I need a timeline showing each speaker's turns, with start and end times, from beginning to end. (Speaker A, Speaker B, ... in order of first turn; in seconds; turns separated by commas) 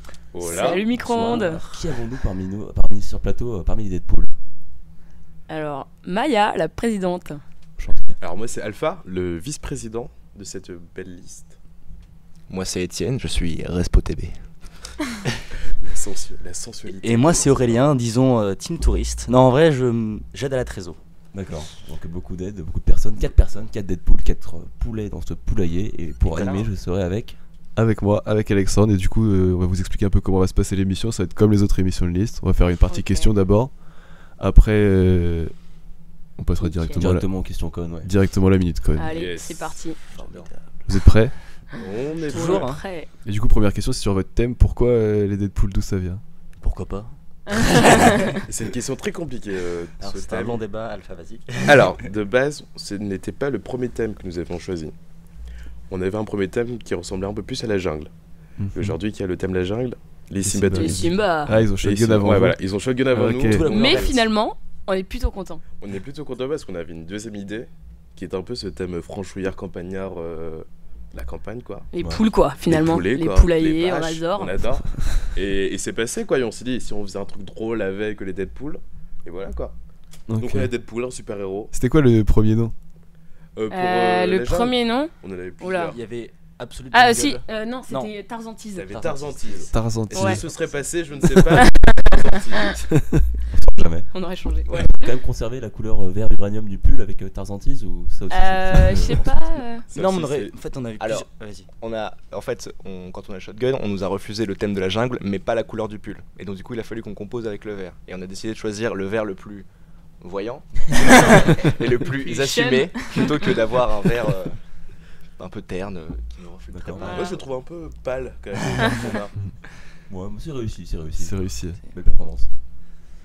Speaker A: 0.3-0.9, Speaker B: 0.3-4.3, Speaker C: 0.4-1.7, Speaker D: 1.3-1.7, Speaker C: 5.5-7.4, Speaker B: 7.8-8.2, Speaker A: 8.2-11.5, Speaker E: 12.5-14.4, Speaker A: 15.8-17.9, Speaker D: 16.9-21.0, Speaker B: 21.3-27.4, Speaker D: 26.3-26.7, Speaker F: 27.7-35.5, Speaker C: 32.8-33.3, Speaker F: 36.4-39.1, Speaker C: 36.6-37.1, Speaker B: 37.0-38.1, Speaker C: 39.0-40.1, Speaker A: 39.0-39.9, Speaker D: 40.0-40.6, Speaker E: 40.1-40.5, Speaker F: 40.9-41.3, Speaker A: 41.8-42.8, Speaker C: 42.2-43.1, Speaker D: 42.3-42.8, Speaker F: 43.2-46.2, Speaker D: 46.6-47.1, Speaker C: 47.5-48.4, Speaker A: 48.5-50.6, Speaker D: 50.0-52.0, Speaker A: 51.6-54.9, Speaker A: 55.9-58.1, Speaker F: 58.6-59.0, Speaker A: 58.7-64.3, Speaker F: 60.4-63.7, Speaker C: 60.7-61.7, Speaker D: 63.5-64.1, Speaker C: 63.6-65.6, Speaker A: 65.8-71.9, Speaker C: 71.9-74.6, Speaker B: 72.0-72.2, Speaker A: 72.6-79.8, Speaker F: 80.3-80.7, Speaker A: 80.4-81.7, Speaker F: 81.7-82.7, Speaker A: 83.6-86.0, Speaker C: 83.7-86.0, Speaker D: 85.9-88.1, Speaker C: 86.9-89.0, Speaker A: 88.8-92.8, Speaker D: 88.9-89.4, Speaker E: 89.6-91.3, Speaker F: 89.7-90.4, Speaker C: 91.3-92.8, Speaker B: 93.5-94.1, Speaker C: 94.1-95.2, Speaker B: 94.7-99.4, Speaker C: 98.3-99.9, Speaker A: 99.9-100.6, Speaker D: 99.9-101.7, Speaker E: 101.0-109.7, Speaker E: 110.2-114.6, Speaker C: 111.0-113.7, Speaker E: 115.4-117.4, Speaker B: 116.7-117.2, Speaker C: 117.0-117.4, Speaker A: 117.0-119.3, Speaker B: 120.1-122.5, Speaker F: 121.1-121.8